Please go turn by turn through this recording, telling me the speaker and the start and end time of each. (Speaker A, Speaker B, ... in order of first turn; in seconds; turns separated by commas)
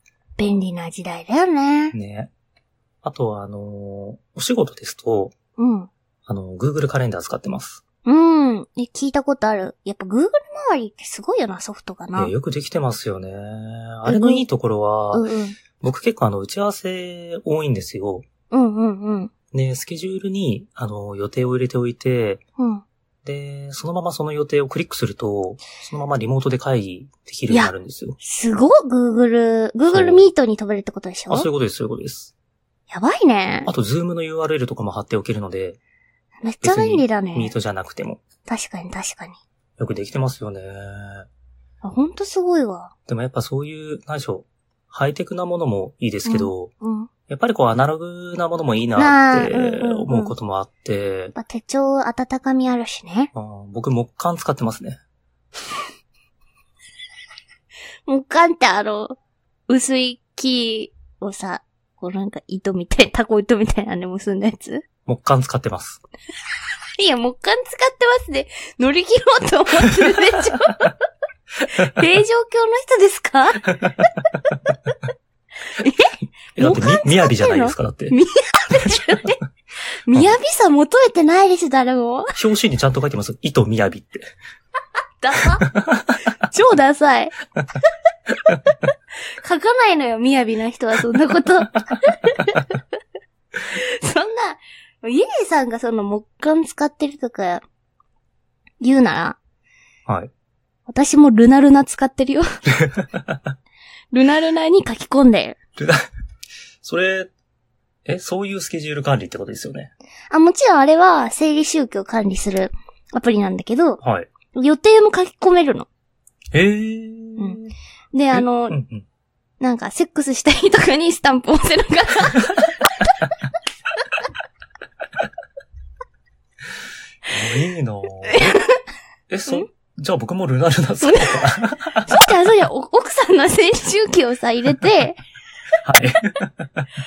Speaker A: 0.4-1.9, Speaker B: 1.9-2.3, Speaker B: 3.0-5.3, Speaker A: 5.6-5.9, Speaker B: 6.3-7.8, Speaker A: 8.1-12.3, Speaker B: 12.2-15.2, Speaker A: 14.1-14.5, Speaker A: 15.1-15.6, Speaker B: 15.8-18.2, Speaker A: 18.5-19.3, Speaker B: 19.5-22.4, Speaker A: 22.6-22.8, Speaker B: 23.2-28.2, Speaker A: 27.5-31.5, Speaker B: 29.9-30.3, Speaker B: 31.3-32.3, Speaker A: 32.9-33.7, Speaker B: 33.7-35.8, Speaker A: 36.4-37.5, Speaker B: 36.6-38.2, Speaker A: 38.5-39.4, Speaker B: 39.8-41.3, Speaker A: 41.8-42.9, Speaker B: 43.1-46.7, Speaker A: 46.2-47.1, Speaker B: 47.3-51.3, Speaker A: 49.0-50.3, Speaker A: 51.3-53.3, Speaker B: 53.3-55.0, Speaker A: 58.1-59.2, Speaker A: 59.7-64.8, Speaker B: 65.1-66.0, Speaker A: 67.0-70.9, Speaker A: 71.7-73.7, Speaker B: 73.7-74.0, Speaker A: 75.7-79.4, Speaker B: 76.6-78.2, Speaker A: 80.1-82.3, Speaker B: 82.4-84.3, Speaker A: 85.2-85.7, Speaker B: 85.7-86.1, Speaker A: 86.5-87.3, Speaker A: 89.4-92.7, Speaker A: 93.7-97.6, Speaker A: 98.8-99.4, Speaker A: 100.9-102.5, Speaker A: 104.1-105.6, Speaker B: 106.8-107.3, Speaker B: 108.1-109.9, Speaker A: 110.3-114.0, Speaker B: 114.0-114.3, Speaker A: 114.5-115.9, Speaker B: 116.5-117.7, Speaker A: 118.1-118.8, Speaker B: 118.3-119.0, Speaker A: 119.6-122.6, Speaker B: 127.3-128.4, Speaker A: 128.3-128.8, Speaker B: 129.3-132.0, Speaker A: 131.0-131.5, Speaker A: 132.0-135.2, Speaker B: 135.8-136.9